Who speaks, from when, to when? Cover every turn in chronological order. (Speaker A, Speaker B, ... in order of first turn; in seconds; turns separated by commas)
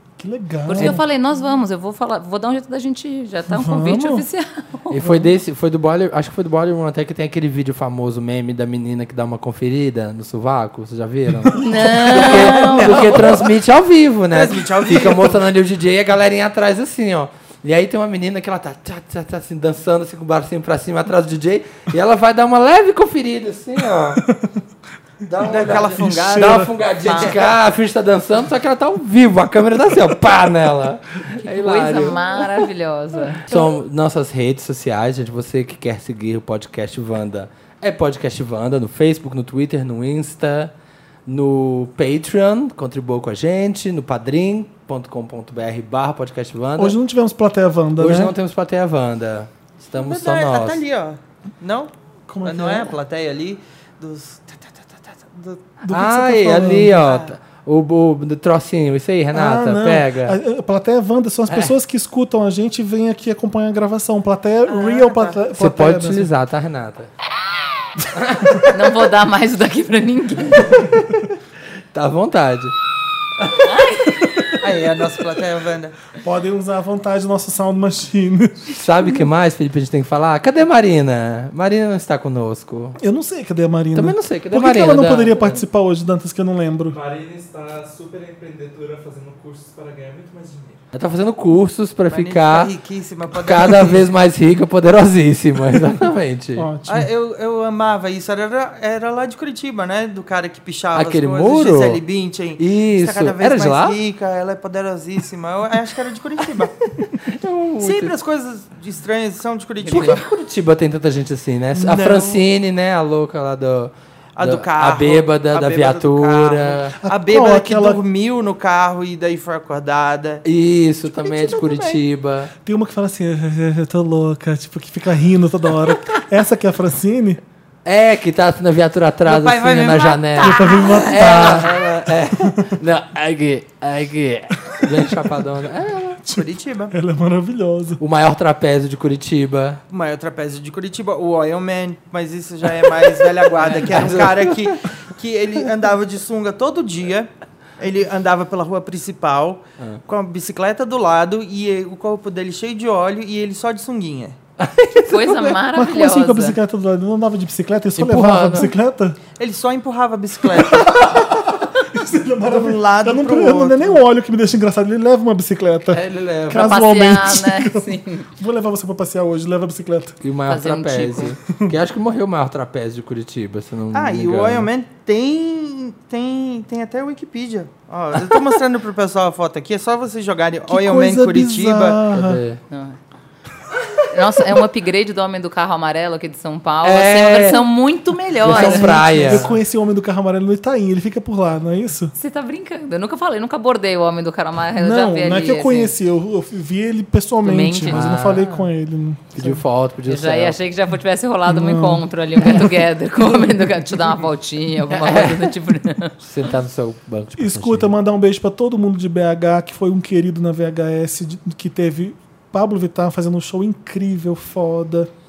Speaker A: 0.2-1.0, Speaker B: 0.7-5.0, Speaker A: 3.5-4.2, Speaker C: 4.9-24.2, Speaker A: 5.0-5.3, Speaker B: 11.5-13.3, Speaker D: 12.8-13.3, Speaker D: 14.3-15.4, Speaker C: 25.3-32.1, Speaker D: 25.4-27.5, Speaker A: 25.5-26.8, Speaker B: 27.1-27.3, Speaker B: 31.4-33.5, Speaker C: 33.5-40.7, Speaker C: 41.3-47.0, Speaker A: 46.8-48.4, Speaker C: 48.0-50.8, Speaker D: 49.9-51.9, Speaker A: 52.3-53.0, Speaker D: 52.4-55.7, Speaker A: 55.8-57.0, Speaker C: 55.9-60.4, Speaker D: 56.9-57.4, Speaker A: 59.3-66.3, Speaker D: 64.7-65.4, Speaker C: 65.5-67.1, Speaker C: 68.1-68.7, Speaker B: 68.7-70.8, Speaker C: 70.7-71.2, Speaker C: 71.9-72.7, Speaker B: 73.6-74.6, Speaker D: 74.6-76.0, Speaker A: 76.2-78.8, Speaker C: 78.7-83.0, Speaker A: 83.0-87.0, Speaker C: 83.9-85.3, Speaker E: 86.9-90.8, Speaker C: 90.9-92.7, Speaker D: 92.1-94.0, Speaker C: 93.3-96.7, Speaker A: 96.5-97.1, Speaker D: 96.8-106.7, Speaker C: 100.9-102.0, Speaker C: 102.6-104.0, Speaker C: 107.0-108.1, Speaker D: 107.8-110.2, Speaker B: 109.8-110.2, Speaker C: 109.8-116.9, Speaker A: 111.7-112.4, Speaker D: 114.3-120.4, Speaker A: 117.0-118.0, Speaker C: 120.4-122.5, Speaker D: 121.2-122.0, Speaker A: 121.5-121.8, Speaker A: 122.6-127.4, Speaker C: 127.8-136.2, Speaker D: 129.2-131.8, Speaker A: 130.4-131.8, Speaker A: 132.4-132.8, Speaker A: 136.2-138.0, Speaker D: 136.3-136.9, Speaker C: 138.0-139.8, Speaker D: 139.9-154.4, Speaker C: 143.4-144.8, Speaker C: 154.6-155.4, Speaker B: 155.1-156.6, Speaker A: 155.1-159.2, Speaker C: 157.9-158.7, Speaker D: 159.4-161.1, Speaker A: 160.6-170.2, Speaker D: 162.5-164.0, Speaker C: 165.9-166.8, Speaker B: 166.5-168.3, Speaker C: 170.2-174.7, Speaker B: 170.5-171.4, Speaker A: 171.5-171.8, Speaker D: 173.9-182.1, Speaker A: 180.7-182.4, Speaker C: 182.1-182.6, Speaker B: 182.7-183.0, Speaker B: 184.1-189.4, Speaker C: 186.8-187.7, Speaker A: 188.4-192.1, Speaker C: 188.4-189.5, Speaker B: 192.2-195.9, Speaker A: 194.8-199.6, Speaker B: 197.4-198.0, Speaker C: 197.8-198.4, Speaker C: 199.3-200.6, Speaker B: 200.1-206.2, Speaker A: 201.4-202.7, Speaker A: 203.2-204.2, Speaker C: 204.9-205.5, Speaker C: 206.2-207.9, Speaker A: 207.3-215.1